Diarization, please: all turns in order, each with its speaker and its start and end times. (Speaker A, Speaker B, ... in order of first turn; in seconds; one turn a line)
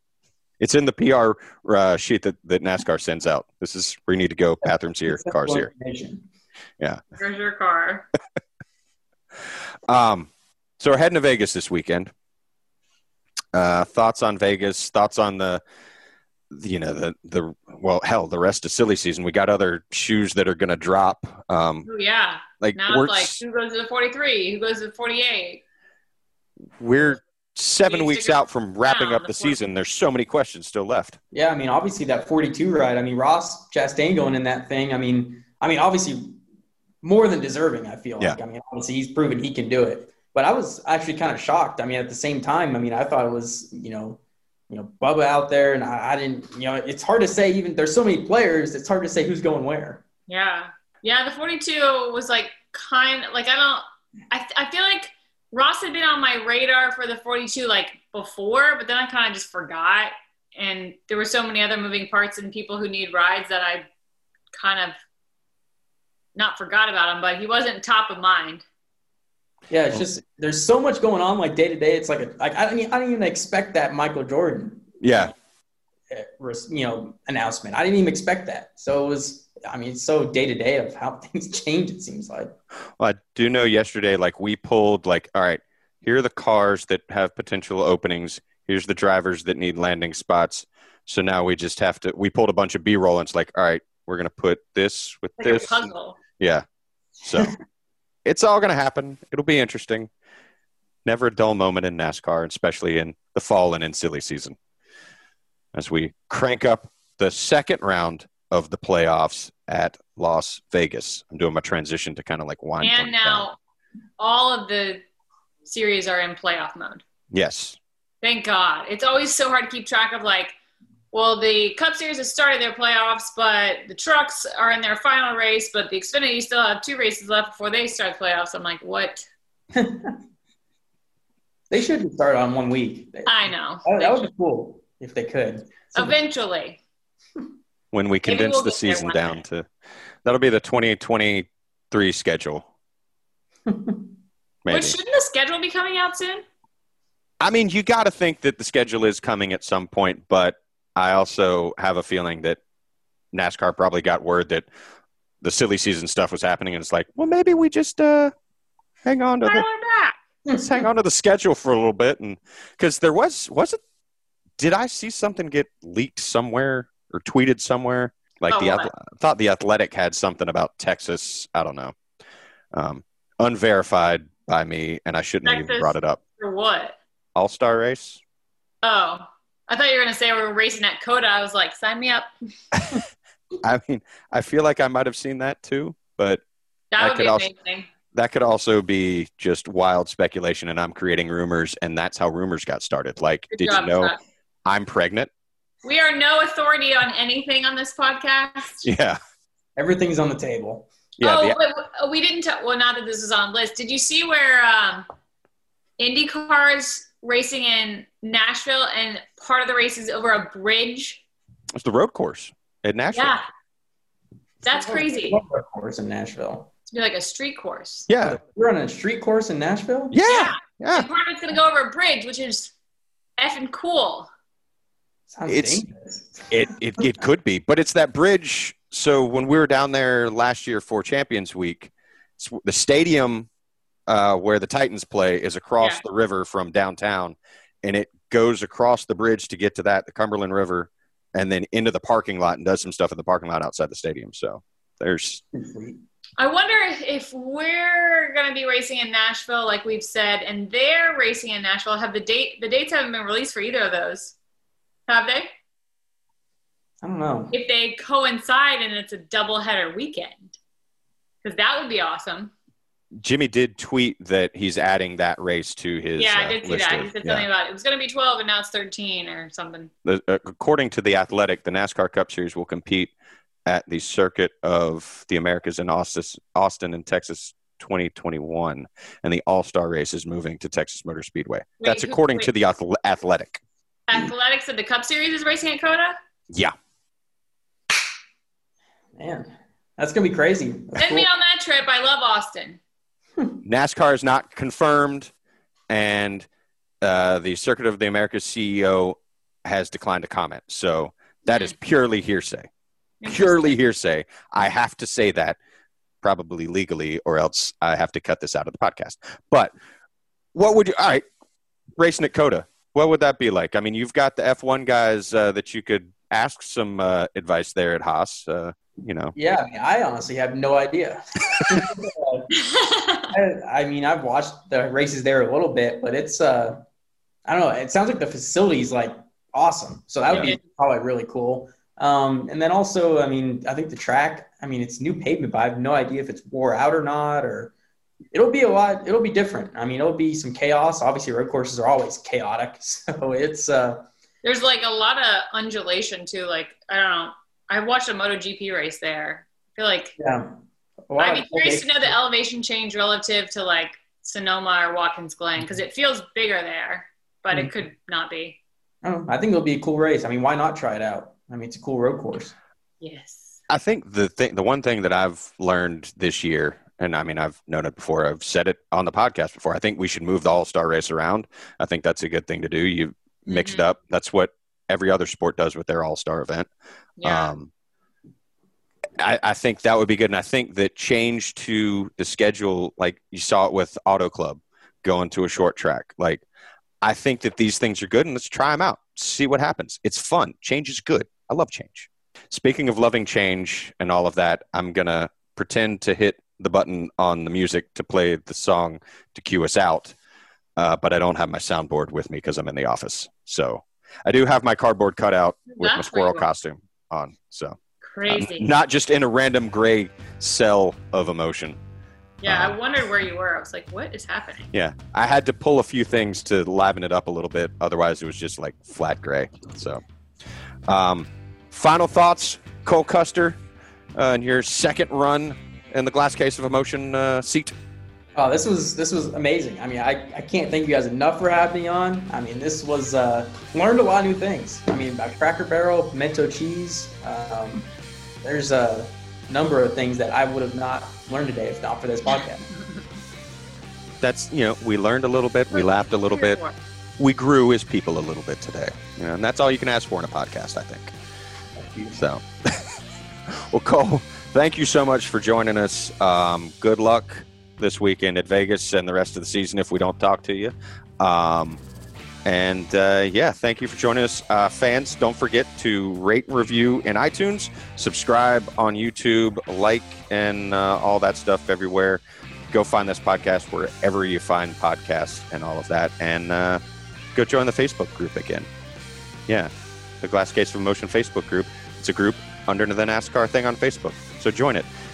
Speaker A: 0.6-5.7
Speaker B: 4.6-6.2
Speaker C: 7.1-8.1
Speaker A: 9.9-12.1
Speaker A: 13.5-15.6
Speaker A: 16.5-21.9
Speaker C: 21.8-25.6
Speaker A: 22.6-23.4
Speaker A: 26.8-31.2
Speaker C: 27.8-29.6
Speaker B: 31.3-36.4
Speaker B: 37.0-44.2
Speaker B: 44.7-50.0
Speaker C: 50.3-63.9
Speaker C: 64.5-65.0
Speaker C: 66.3-68.6
Speaker B: 69.7-75.3
Speaker A: 75.0-75.3
Speaker B: 76.1-82.5
Speaker A: 83.0-96.6
Speaker C: 95.4-96.2
Speaker A: 97.2-97.5
Speaker A: 98.2-100.1
Speaker A: 101.0-104.6
Speaker A: 105.7-113.4
Speaker C: 112.8-113.6
Speaker C: 114.2-115.0
Speaker C: 115.6-117.0
Speaker A: 117.3-117.8
Speaker C: 118.2-120.5
Speaker C: 121.1-129.2
Speaker B: 129.7-130.2
Speaker B: 131.7-136.2
Speaker C: 133.2-134.3
Speaker C: 135.9-136.8
Speaker A: 137.9-139.7
Speaker C: 138.2-139.4
Speaker A: 140.2-142.7
Speaker B: 143.7-144.0
Speaker A: 144.6-145.0
Speaker C: 144.7-146.4
Speaker A: 147.4-152.6
Speaker A: 153.3-154.7
Speaker A: 155.4-158.3
Speaker A: 159.0-159.6
Speaker C: 159.4-160.2
Speaker A: 160.6-163.8
Speaker A: 164.6-171.9
Speaker C: 168.5-168.9
Speaker A: 172.7-176.2
Speaker C: 175.4-177.0
Speaker A: 177.3-178.2
Speaker C: 178.8-182.3
Speaker A: 182.7-183.0
Speaker A: 183.6-186.4
Speaker C: 186.9-187.9
Speaker A: 187.0-187.5
Speaker A: 188.1-194.1
Speaker C: 193.5-194.2
Speaker A: 194.6-195.3
Speaker C: 195.8-198.9
Speaker A: 198.8-199.2
Speaker B: 199.8-200.9
Speaker A: 201.2-201.6
Speaker C: 201.2-205.1
Speaker C: 206.0-211.2
Speaker A: 211.7-213.4
Speaker C: 213.1-213.4
Speaker C: 214.6-215.4
Speaker B: 214.7-216.7
Speaker C: 216.9-218.1
Speaker A: 218.1-218.4
Speaker B: 218.2-220.2
Speaker A: 220.1-221.1
Speaker C: 220.2-222.7
Speaker C: 223.4-224.3
Speaker B: 225.3-227.0
Speaker A: 225.5-225.8
Speaker A: 226.5-233.5
Speaker A: 234.1-245.4
Speaker B: 245.5-246.0
Speaker C: 246.4-254.3
Speaker C: 255.1-255.5
Speaker B: 257.0-257.5
Speaker C: 257.5-260.6
Speaker C: 261.4-262.5
Speaker A: 263.2-267.4
Speaker C: 266.2-269.9
Speaker A: 270.0-273.1
Speaker A: 273.6-283.6
Speaker C: 281.8-282.5
Speaker C: 284.1-286.2
Speaker B: 289.2-291.3
Speaker C: 291.0-292.8
Speaker A: 293.6-295.3
Speaker A: 295.9-296.5
Speaker A: 297.0-302.7
Speaker C: 301.5-301.7
Speaker C: 303.2-303.8
Speaker A: 303.2-305.6
Speaker A: 306.2-309.7
Speaker A: 310.5-311.2
Speaker A: 312.0-319.3
Speaker B: 319.4-322.5
Speaker C: 322.5-323.3
Speaker B: 323.3-326.8
Speaker B: 327.4-337.7
Speaker A: 330.3-330.5
Speaker B: 338.3-344.1
Speaker C: 344.4-350.1
Speaker B: 350.2-350.6
Speaker B: 351.1-352.1
Speaker C: 351.2-358.6
Speaker B: 359.0-362.5
Speaker C: 363.0-363.6
Speaker A: 363.7-376.7
Speaker C: 373.5-373.9
Speaker C: 377.2-377.5
Speaker A: 377.2-377.7
Speaker A: 379.2-386.4
Speaker A: 387.0-400.1
Speaker A: 400.8-411.8
Speaker C: 405.7-406.5
Speaker C: 408.0-408.7
Speaker C: 412.4-414.7
Speaker A: 412.4-412.8
Speaker A: 414.7-420.0
Speaker A: 420.9-423.6
Speaker A: 424.1-427.7
Speaker B: 428.4-437.9
Speaker B: 438.4-442.6
Speaker A: 444.2-446.6
Speaker C: 445.7-446.8
Speaker A: 447.2-451.1
Speaker B: 451.8-452.2
Speaker A: 452.1-453.0
Speaker A: 453.5-461.8
Speaker A: 462.4-476.8
Speaker A: 477.3-478.7
Speaker A: 480.2-484.9